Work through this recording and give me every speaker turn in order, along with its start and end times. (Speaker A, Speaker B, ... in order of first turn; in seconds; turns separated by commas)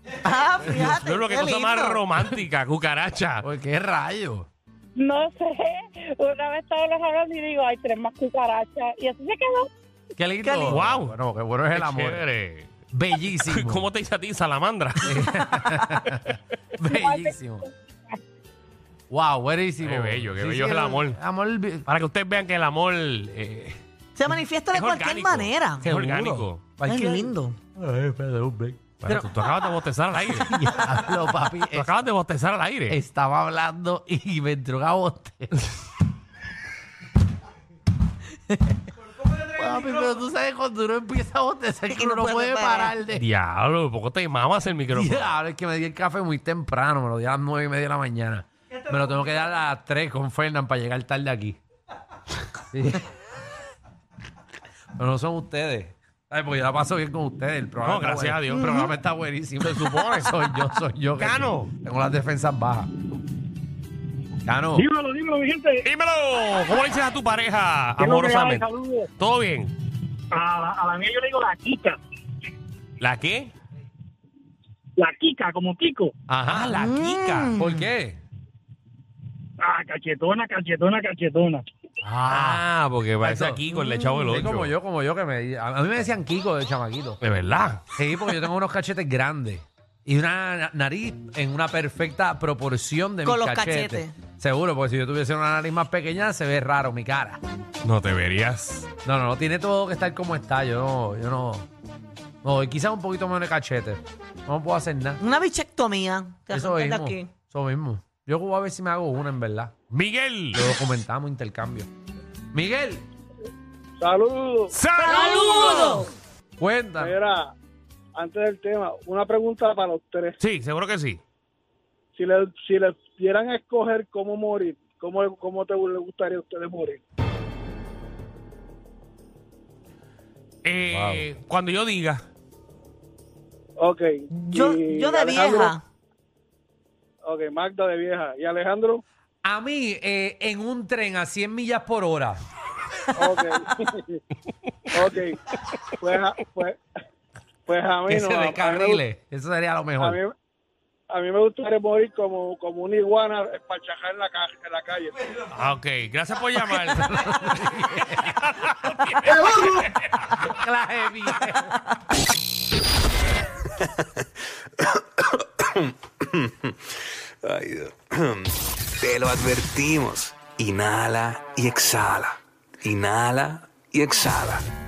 Speaker A: 0.2-2.0, Speaker B: 0.7-3.4, Speaker C: 3.4-4.5, Speaker D: 5.0-9.7, Speaker C: 10.2-12.2, Speaker A: 10.4-10.8, Speaker B: 10.7-11.2, Speaker B: 11.7-12.7, Speaker C: 12.9-13.9, Speaker B: 13.5-15.3, Speaker C: 15.0-17.7, Speaker D: 16.9-17.3, Speaker C: 19.1-21.9, Speaker B: 19.8-21.2, Speaker B: 21.9-23.8, Speaker A: 24.2-25.9, Speaker B: 24.7-26.6, Speaker C: 25.8-28.9, Speaker A: 26.9-27.6, Speaker B: 29.0-30.5, Speaker C: 30.3-31.9, Speaker B: 31.7-33.0, Speaker C: 32.9-35.7, Speaker C: 39.2-43.2, Speaker A: 41.9-43.0, Speaker B: 43.1-45.3, Speaker C: 44.9-51.6, Speaker C: 52.7-53.1, Speaker C: 55.0-62.9, Speaker B: 57.8-58.9, Speaker B: 59.7-60.3, Speaker B: 61.2-61.7, Speaker C: 64.5-64.9, Speaker E: 64.8-65.9, Speaker B: 65.8-69.7, Speaker E: 68.0-69.1, Speaker E: 70.3-72.0, Speaker B: 73.0-73.5, Speaker E: 75.0-76.1, Speaker C: 76.3-78.2, Speaker B: 76.5-77.5, Speaker A: 76.6-77.9, Speaker E: 79.6-81.7, Speaker C: 82.0-82.7, Speaker B: 82.3-84.7, Speaker C: 83.2-83.6, Speaker A: 83.9-84.2, Speaker C: 84.3-87.2, Speaker B: 87.2-87.9, Speaker C: 87.9-97.4, Speaker A: 93.2-94.1, Speaker B: 97.8-98.9, Speaker C: 99.0-101.7, Speaker C: 102.4-105.2, Speaker A: 105.2-107.3, Speaker C: 106.5-109.8, Speaker B: 109.9-110.6, Speaker C: 110.5-111.9, Speaker C: 112.5-113.0, Speaker F: 114.0-115.1, Speaker B: 114.7-116.1, Speaker A: 115.1-116.0, Speaker C: 116.6-117.1, Speaker F: 117.0-117.5, Speaker F: 118.2-120.4, Speaker B: 120.4-121.2, Speaker F: 122.2-127.0, Speaker B: 130.7-132.2, Speaker C: 130.9-131.3, Speaker F: 133.8-135.7, Speaker A: 134.3-135.8, Speaker F: 137.2-139.0, Speaker C: 139.4-142.4, Speaker F: 143.2-144.2, Speaker F: 144.9-145.4, Speaker F: 146.0-146.8, Speaker F: 147.7-149.0, Speaker C: 148.1-150.2, Speaker F: 150.0-150.3, Speaker F: 151.1-155.1, Speaker B: 155.6-160.0, Speaker C: 156.7-158.4, Speaker C: 159.2-161.8, Speaker G: 164.9-166.8, Speaker G: 167.4-174.7